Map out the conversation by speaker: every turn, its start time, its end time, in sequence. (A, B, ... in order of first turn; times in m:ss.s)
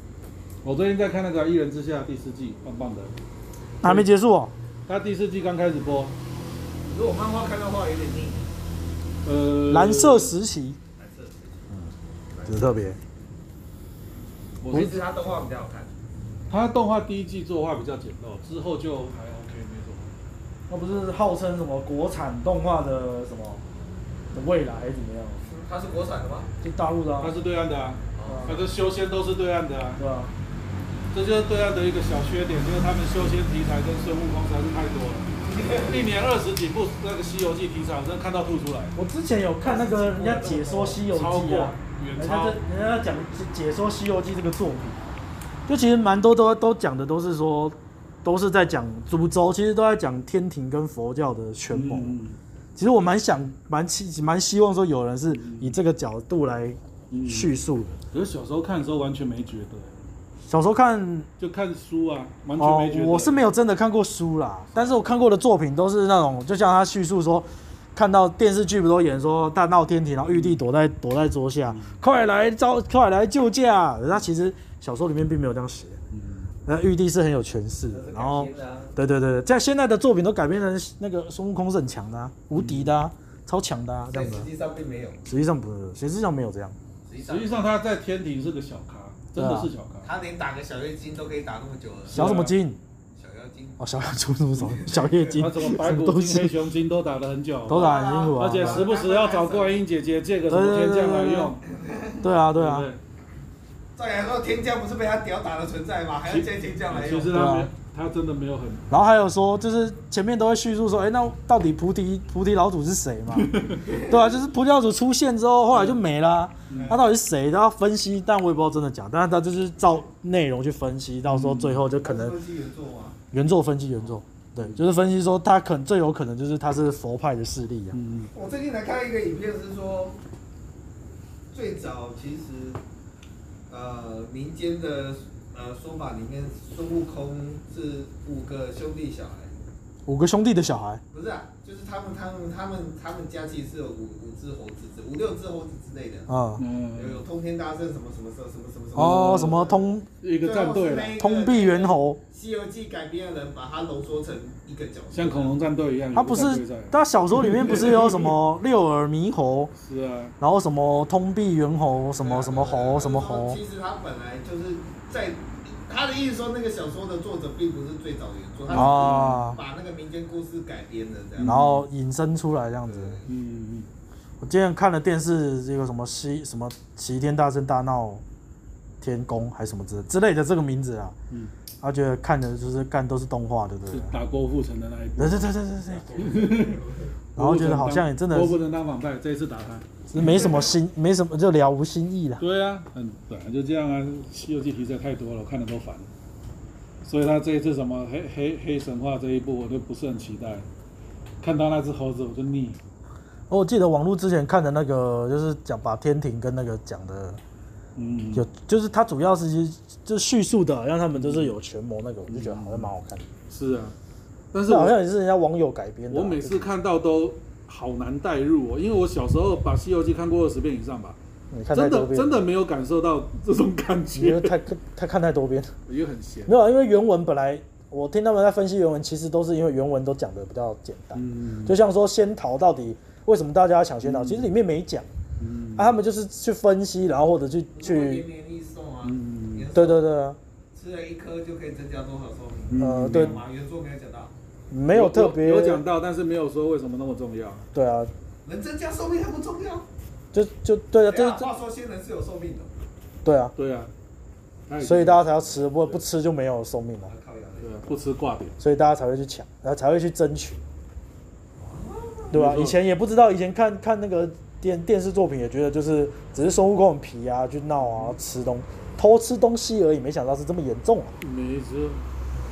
0:00.6-0:03.2 A
0:03.8-0:04.5 B
0:03.8-0:04.1 A
0:04.9-0:06.2 A
0:06.8-0:08.5 C
0:09.2-0:10.3 A
0:09.7-0:10.8 B
0:11.0-0:11.7 C
0:12.3-0:12.9 C
0:12.5-0:13.0 B
0:14.6-0:15.0 A
0:14.7-0:15.9 C
0:16.5-0:20.1 A
0:20.7-0:23.6 B
0:24.3-0:25.5 B
0:25.4-0:26.5 C
0:26.6-0:27.3 B
0:27.2-0:30.0 A
0:28.2-0:28.5 C
0:28.3-0:28.6 B
0:30.0-0:30.3 B
0:31.1-0:39.0 A
0:35.4-0:36.0 C
0:39.0-0:45.2 B
0:39.6-0:41.0 C
0:41.1-0:42.6 A
0:45.7-0:52.2 B
0:51.7-0:52.4 A
0:52.8-0:58.0 B
0:55.3-0:55.8 A
0:57.1-0:57.5 A
0:58.1-1:00.0 A
1:00.5-1:01.3 B
1:01.4-1:03.4 A
1:02.6-1:16.0 B
1:10.3-1:10.6 A
1:11.7-1:12.0 A
1:16.1-1:16.5 A
1:16.7-1:24.5 B
1:17.9-1:19.0 C
1:22.5-1:23.0 A
1:24.1-1:25.2 C
1:25.3-1:26.8 B
1:27.1-1:27.7 C
1:27.2-1:30.1 A
1:29.4-1:29.7 B
1:30.0-1:32.2 C
1:32.1-1:32.6 A
1:32.1-1:32.8 B
1:33.2-1:33.8 C
1:33.8-1:36.6 B
1:34.6-1:35.4 C
1:35.3-1:41.6 A
1:37.7-1:38.9 B
1:37.7-1:39.8 C
1:40.5-1:41.6 B
1:41.7-1:42.2 C
1:42.2-1:42.9 B
1:42.5-1:43.0 A
1:44.0-1:47.4 C
1:46.3-1:48.9 A
1:47.3-1:47.7 B
1:48.9-2:02.4 B
1:53.4-1:53.8 A
1:53.8-1:54.2 C
1:55.7-1:56.0 A
1:56.7-1:57.0 A
1:56.7-1:57.0 C
2:01.2-2:01.8 A
2:02.0-2:03.2 C
2:03.3-2:08.0 B
2:07.9-2:08.3 A
2:08.3-2:10.2 C
2:11.5-2:12.8 C
2:13.7-2:19.5 C
2:20.1-2:21.0 B
2:21.1-2:26.3 C
2:26.3-2:26.6 B
2:26.6-2:27.2 A
2:26.9-2:29.8 C
2:29.0-2:30.1 B
2:29.0-2:31.2 A
2:30.4-2:35.6 C
2:31.2-2:32.2 B
2:35.1-2:38.4 A
2:36.1-2:39.7 B
2:39.8-2:40.3 A
2:40.4-2:43.6 B
2:42.2-2:51.6 C
2:48.7-2:49.6 A
2:48.7-2:49.6 B
2:51.4-2:51.9 A
2:51.4-2:53.2 B
2:52.8-2:53.3 C
2:53.3-2:53.9 A
2:54.4-2:58.2 B
2:59.0-3:01.2 B
3:01.8-3:04.2 B
3:03.9-3:05.5 A
3:05.2-3:06.1 B
3:05.9-3:07.1 C
3:06.2-3:06.8 A
3:07.4-3:09.9 A
3:07.4-3:08.6 B
3:10.1-3:12.4 B
3:10.2-3:10.7 C
3:12.4-3:16.1 A
3:17.0-3:20.7 A
3:21.4-3:22.8 A
3:23.5-3:27.4 B
3:28.0-3:28.4 A
3:28.4-3:33.3 B
3:31.1-3:31.5 A
3:32.3-3:32.9 A
3:33.5-3:33.9 A
3:34.5-3:35.0 A
3:34.7-3:36.7 B
3:36.1-3:41.2 A
3:41.5-3:42.4 B
3:41.7-3:44.6 A
3:44.1-3:45.7 B
3:45.9-3:46.6 A
3:46.5-3:55.1 B
3:51.2-3:51.8 A
3:54.0-3:54.5 A
3:55.4-3:56.0 A
3:55.8-3:58.2 B
3:57.8-4:00.1 C
3:59.0-3:59.7 A
3:59.7-4:00.4 B
4:00.7-4:04.3 C
4:02.7-4:03.4 A
4:02.8-4:03.4 B
4:04.7-4:05.8 B
4:04.9-4:07.6 A
4:07.7-4:08.1 B
4:08.4-4:09.9 C
4:10.3-4:11.5 B
4:11.0-4:12.8 C
4:13.2-4:13.5 B
4:13.6-4:13.9 A
4:14.7-4:16.0 A
4:14.8-4:17.1 B
4:17.1-4:17.7 C
4:17.6-4:18.6 A
4:18.6-4:20.6 B
4:21.6-4:22.3 C
4:22.3-4:31.2 B
4:22.3-4:22.8 A
4:27.8-4:28.2 A
4:31.2-4:32.0 A